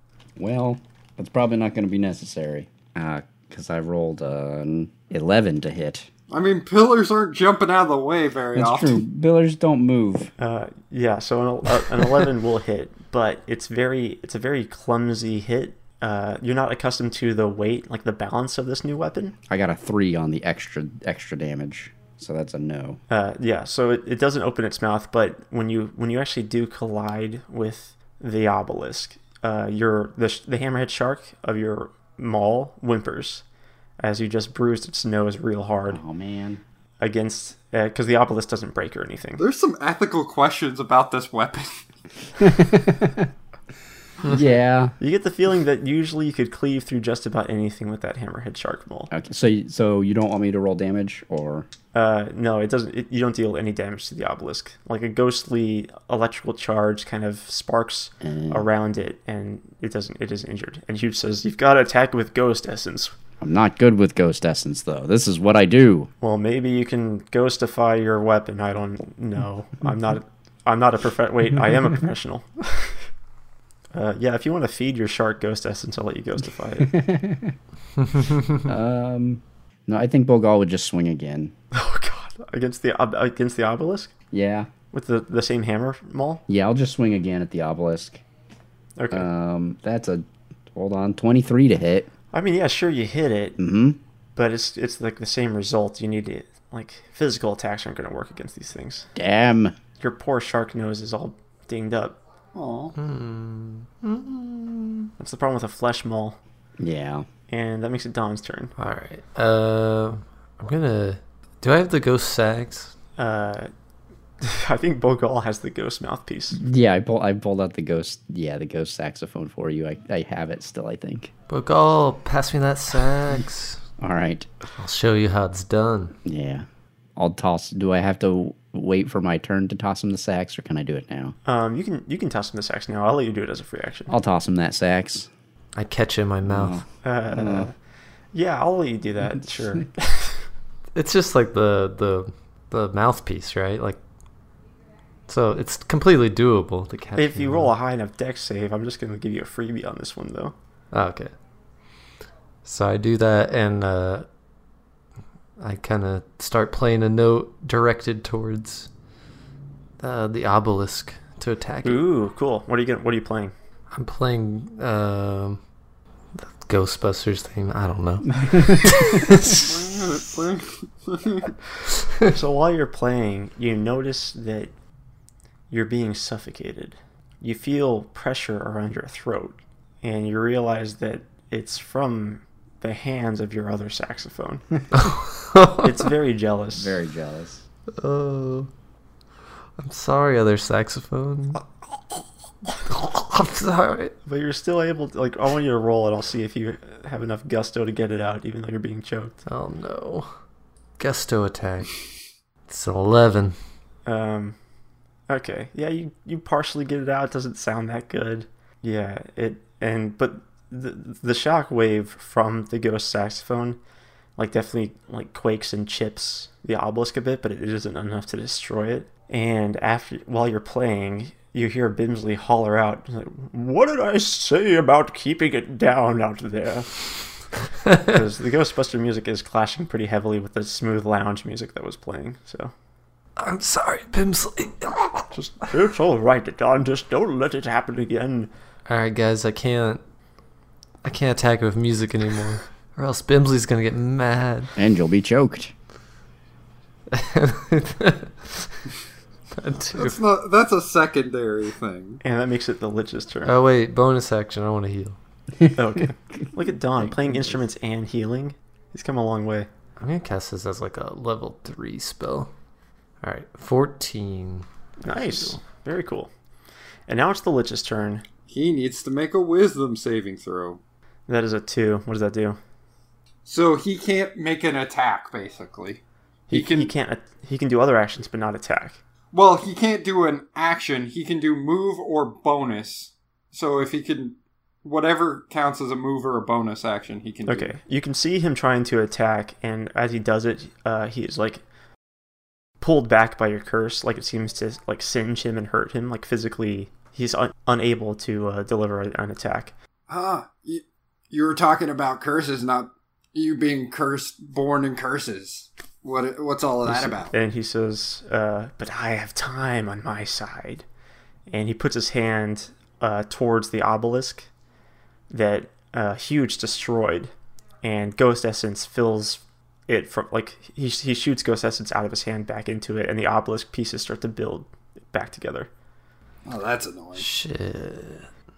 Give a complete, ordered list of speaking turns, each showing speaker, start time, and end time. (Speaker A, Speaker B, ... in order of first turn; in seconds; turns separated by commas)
Speaker A: 0.4-6.1, Speaker B: 6.3-9.0, Speaker A: 8.5-10.3, Speaker C: 10.4-19.4, Speaker A: 19.5-23.0, Speaker C: 23.1-33.4, Speaker C: 34.0-36.0, Speaker A: 35.9-36.6, Speaker C: 37.0-39.4, Speaker B: 39.4-41.8, Speaker A: 42.4-43.3, Speaker A: 44.2-45.0, Speaker C: 45.0-49.1, Speaker A: 49.1-51.7, Speaker C: 51.9-63.1, Speaker A: 58.2-58.6, Speaker A: 63.4-66.1, Speaker C: 66.2-73.0, Speaker C: 73.9-77.0, Speaker A: 76.8-77.6, Speaker A: 78.5-81.5, Speaker C: 81.7-84.1, Speaker A: 84.3-84.7, Speaker C: 84.9-86.4, Speaker A: 86.5-88.2, Speaker C: 89.0-89.3, Speaker A: 89.1-92.1, Speaker C: 92.3-93.6, Speaker A: 93.6-94.0, Speaker C: 94.3-99.1, Speaker A: 99.1-99.8, Speaker C: 100.0-102.2, Speaker B: 102.5-102.9, Speaker D: 103.0-105.1, Speaker C: 105.2-106.4, Speaker A: 106.8-107.2, Speaker C: 107.5-108.7, Speaker D: 108.8-112.9, Speaker C: 113.2-113.7, Speaker C: 114.4-116.6, Speaker A: 116.5-121.3, Speaker D: 121.5-123.8, Speaker A: 124.0-124.5, Speaker D: 124.8-126.1, Speaker A: 126.2-126.7, Speaker A: 127.2-131.3, Speaker C: 131.5-134.1, Speaker A: 134.1-135.3, Speaker D: 135.8-136.8, Speaker A: 136.5-137.7, Speaker C: 137.0-137.7, Speaker C: 138.3-140.4, Speaker D: 140.9-144.0, Speaker D: 145.3-147.7, Speaker C: 147.2-150.5, Speaker D: 150.9-151.3, Speaker D: 152.6-154.2, Speaker D: 155.6-158.9, Speaker D: 160.0-162.0, Speaker C: 161.8-163.5, Speaker D: 163.9-165.6, Speaker D: 166.3-169.7, Speaker A: 168.3-168.9, Speaker B: 169.5-171.5, Speaker C: 172.3-174.7, Speaker C: 175.7-184.6, Speaker D: 184.9-186.0, Speaker C: 185.8-187.0, Speaker A: 186.8-187.6, Speaker D: 188.0-188.7, Speaker D: 189.8-191.6, Speaker D: 192.8-194.1, Speaker C: 194.2-199.3, Speaker D: 199.5-200.3, Speaker D: 201.0-202.0, Speaker D: 202.7-203.6, Speaker C: 204.1-204.6, Speaker C: 205.3-213.8, Speaker C: 214.4-226.9, Speaker C: 227.9-232.7, Speaker D: 233.4-235.3, Speaker C: 235.3-238.5, Speaker D: 238.9-240.0, Speaker D: 241.0-244.7, Speaker A: 244.8-245.7, Speaker D: 247.1-248.8, Speaker D: 249.6-250.2, Speaker B: 249.9-252.2, Speaker C: 252.2-253.5, Speaker D: 253.4-255.2, Speaker C: 255.7-259.7, Speaker A: 257.0-257.6, Speaker D: 260.0-262.5, Speaker D: 263.2-264.6, Speaker C: 265.0-266.3, Speaker D: 265.2-265.5, Speaker C: 267.1-268.2, Speaker B: 268.5-270.8, Speaker C: 271.3-272.6, Speaker B: 273.4-276.9, Speaker C: 276.5-279.0, Speaker B: 279.3-287.8, Speaker C: 287.5-291.6, Speaker C: 292.8-299.7, Speaker B: 300.1-307.3, Speaker C: 306.9-310.9, Speaker C: 311.5-314.5, Speaker C: 315.3-317.3, Speaker C: 317.8-325.7, Speaker B: 326.5-327.2, Speaker D: 327.2-328.3